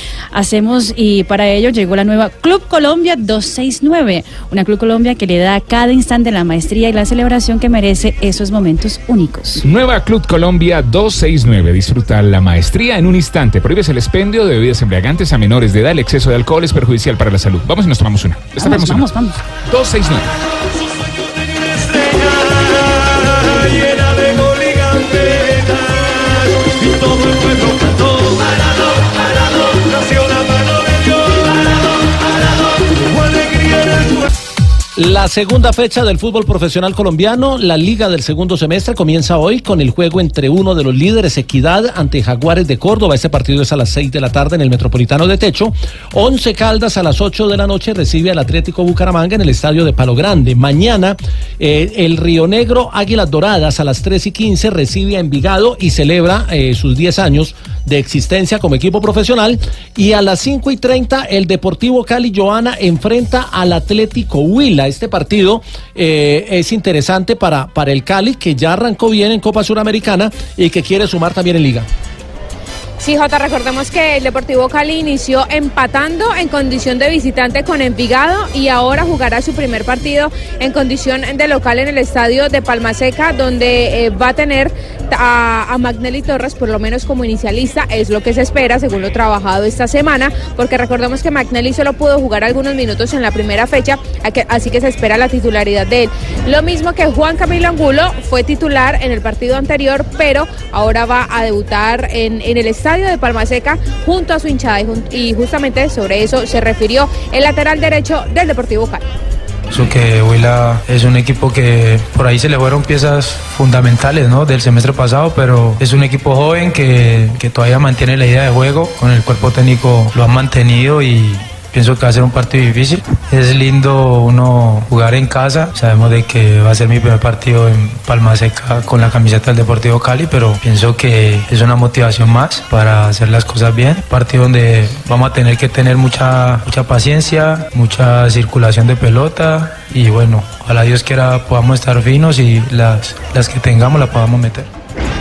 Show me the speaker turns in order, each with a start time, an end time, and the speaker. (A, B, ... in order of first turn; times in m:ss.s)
0:00.3-0:09.6 A
0:09.6-0:19.1 B
0:18.6-0:19.4 A
0:19.7-0:20.3 B
0:35.0-1:11.9 C
1:13.0-1:49.0 D
1:49.7-2:24.7 E